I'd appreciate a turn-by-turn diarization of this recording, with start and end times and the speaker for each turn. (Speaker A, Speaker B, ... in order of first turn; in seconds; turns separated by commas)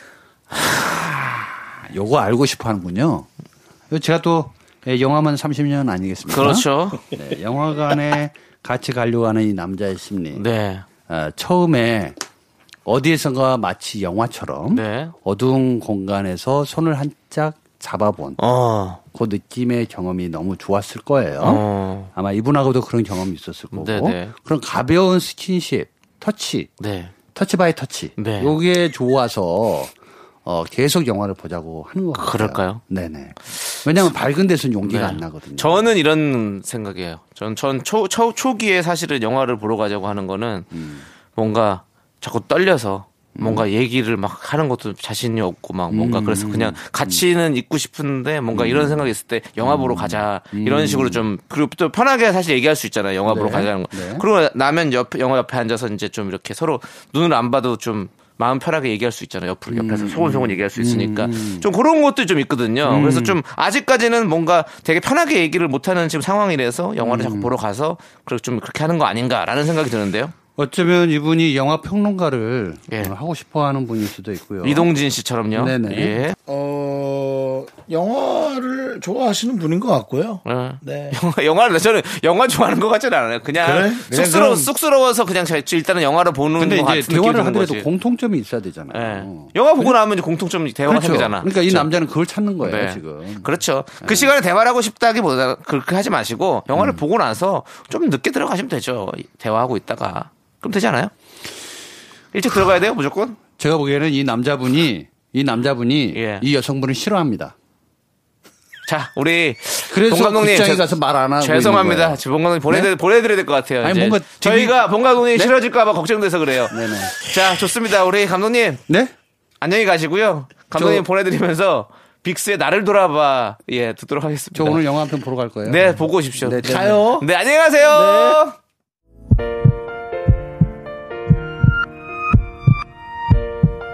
Speaker A: 0.5-3.3, Speaker A: 3.9-10.4, Speaker B: 6.3-7.0, Speaker B: 10.3-10.9, Speaker A: 11.1-12.2, Speaker A: 12.9-18.4, Speaker B: 14.7-15.1, Speaker B: 18.4-19.0, Speaker A: 19.1-26.7, Speaker B: 21.4-22.1, Speaker B: 23.7-24.3, Speaker B: 26.8-27.1, Speaker A: 27.2-29.9, Speaker B: 28.2-28.6, Speaker A: 30.4-35.9, Speaker B: 32.1-32.8, Speaker B: 34.8-40.7, Speaker A: 40.7-41.1, Speaker B: 41.3-70.3, Speaker A: 43.4-43.7, Speaker A: 45.9-47.2, Speaker A: 48.5-51.3, Speaker A: 53.2-54.2, Speaker A: 59.7-61.7, Speaker A: 62.8-63.4, Speaker A: 67.0-67.5, Speaker A: 70.6-74.9, Speaker B: 74.6-76.4, Speaker A: 75.5-76.3, Speaker C: 76.5-81.2, Speaker B: 80.5-87.9, Speaker C: 83.6-84.7, Speaker A: 86.6-90.0, Speaker B: 88.9-91.9, Speaker A: 90.9-93.5, Speaker B: 92.6-101.1, Speaker A: 94.0-94.3, Speaker A: 96.7-97.0, Speaker B: 102.3-103.4, Speaker A: 103.6-107.5, Speaker B: 106.1-106.5, Speaker B: 108.9-118.8, Speaker A: 109.9-112.9, Speaker A: 113.8-115.5, Speaker A: 116.7-117.2, Speaker A: 118.9-119.1, Speaker B: 119.6-124.8, Speaker A: 120.8-121.0, Speaker A: 124.5-127.2, Speaker B: 125.7-128.6, Speaker C: 126.6-127.3, Speaker C: 128.0-128.4